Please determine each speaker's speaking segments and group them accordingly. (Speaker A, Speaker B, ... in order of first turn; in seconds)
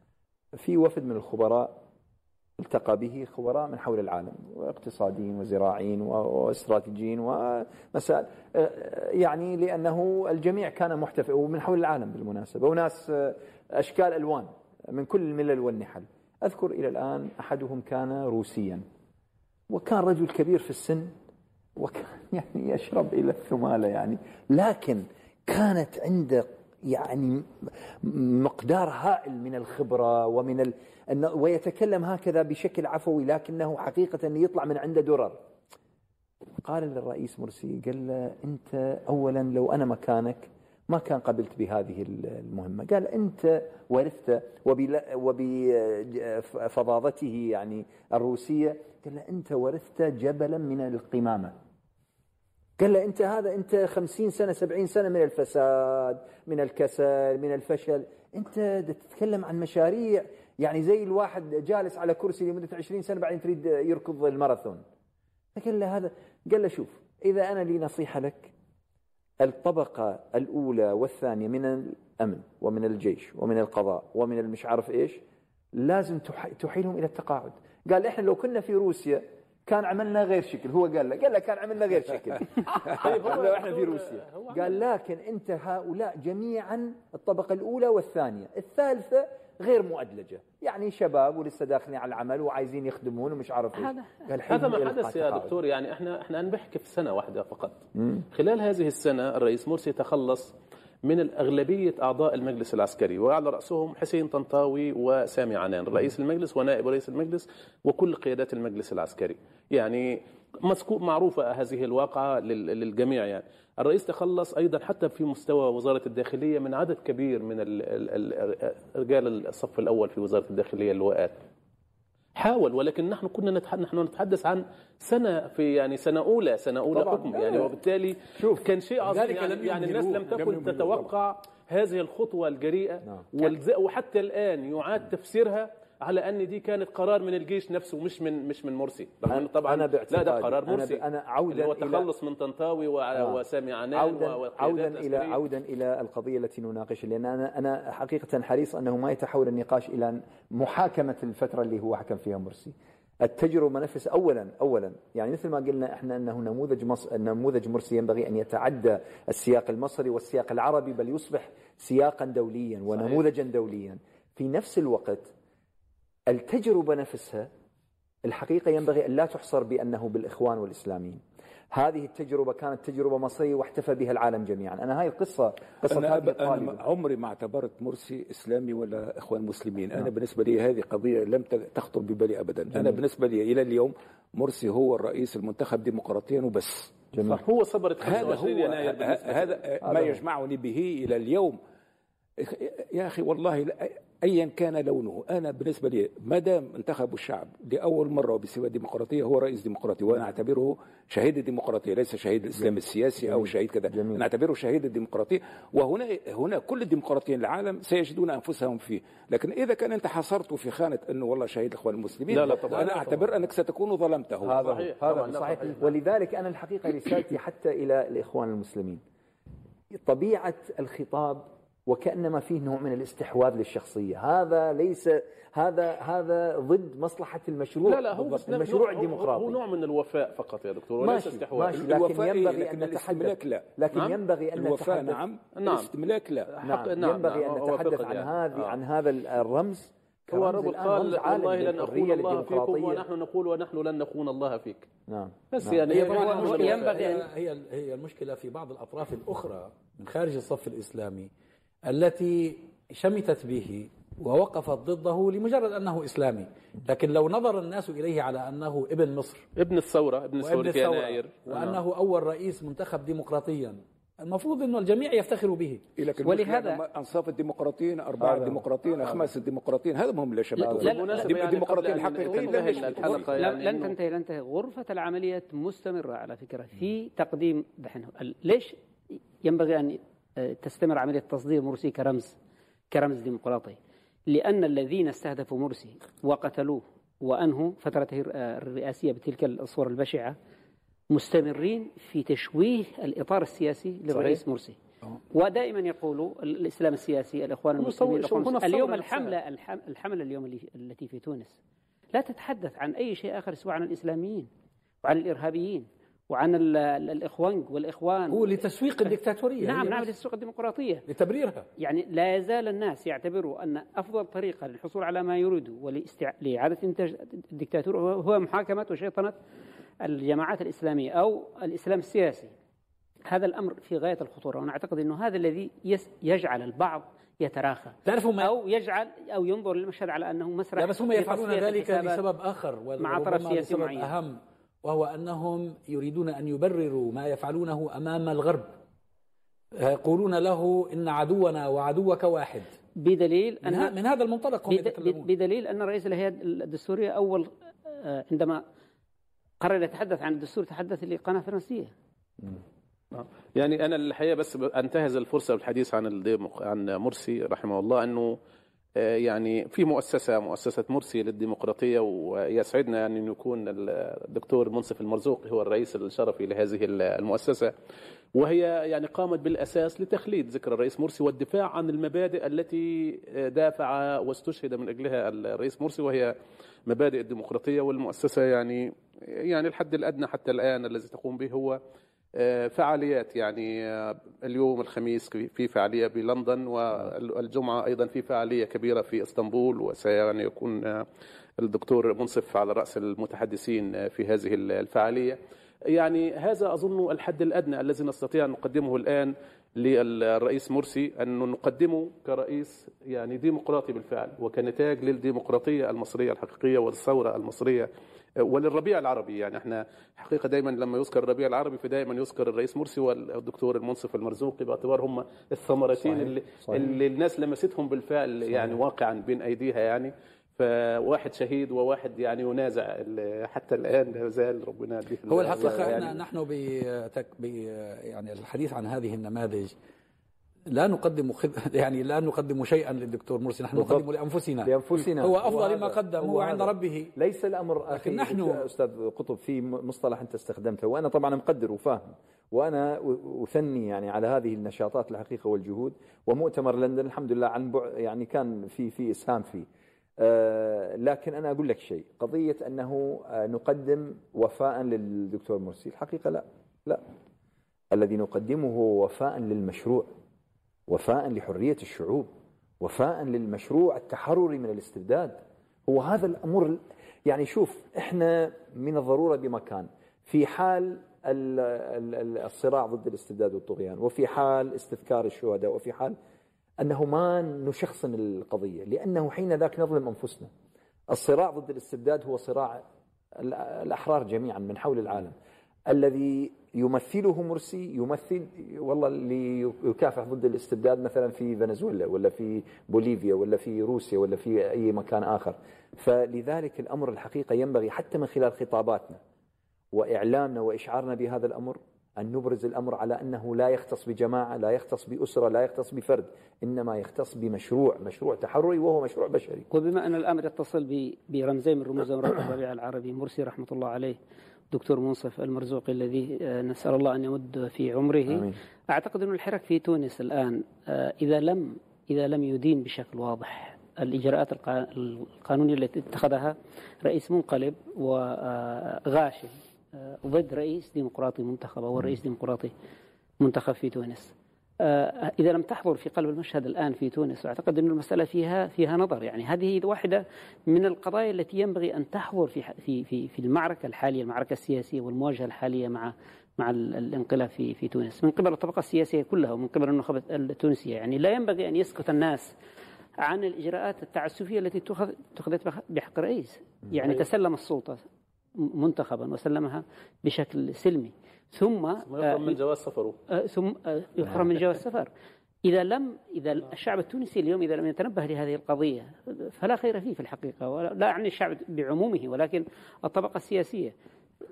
Speaker A: 0.6-1.8, 2.6-18.8, 19.7-21.1, 21.8-35.4, 36.6-51.5, 52.8-64.8, 65.5-68.5, 69.4-75.2, 75.7-95.6, 127.0-127.7, 128.4-128.7, 139.3-142.1, 143.2-143.4, 143.9-165.3, 166.3-167.5, 168.2-176.8, 187.1-187.4, 189.8-190.2, 202.6-204.2, 214.4-219.0, 219.9-229.6, 231.0-235.2, 236.6-243.1, 245.1-245.8, 268.2-269.2, 270.6-270.9, 416.0-416.9, 433.7-434.1, 434.6-449.7, 450.2-457.0, 457.9-460.1, 460.9-462.3, 462.8-476.2, 476.8-480.5, 481.1-482.8, 483.4-485.4, 485.9-499.2, 499.9-509.7, 518.3-518.5
Speaker B: 82.9-84.8, 94.5-121.4, 122.4-145.4, 187.2-189.6, 212.3-213.2, 214.5-215.9, 227.8-231.9, 233.9-234.2, 235.6-235.9, 236.5-238.8, 240.3-244.9, 245.5-247.2, 259.6-261.8, 270.7-273.9, 294.1-294.4, 297.8-299.4, 353.1-358.4, 359.0-367.7, 368.4-376.3, 376.9-381.8, 382.4-391.1, 391.6-395.4, 395.9-407.9, 408.4-426.2, 562.1-563.2
Speaker C: 129.0-130.4, 212.7-213.2, 245.9-251.3, 251.9-259.5, 260.4-265.8, 308.3-310.1, 311.1-311.7, 328.1-328.5, 330.8-338.7, 339.8-342.7, 343.6-345.3, 425.3-429.7, 430.7-437.1, 437.9-438.7
Speaker D: 130.3-131.1, 175.9-187.0, 188.0-191.6, 192.4-214.7, 231.7-233.7, 234.6-236.5, 266.0-273.4
Speaker E: 245.9-247.2, 266.2-266.8, 270.6-271.6, 272.3-278.8, 279.4-282.4, 282.9-290.4, 291.1-294.8, 295.3-301.6, 302.1-304.5, 305.0-308.5, 309.6-311.1, 311.8-319.4, 320.0-322.5, 323.3-332.2, 333.0-334.1, 343.0-343.9, 344.7-348.6, 349.6-351.9, 509.7-514.2, 514.7-532.7, 533.4-552.5, 553.2-558.0, 558.6-562.6, 563.3-565.1, 565.6-573.9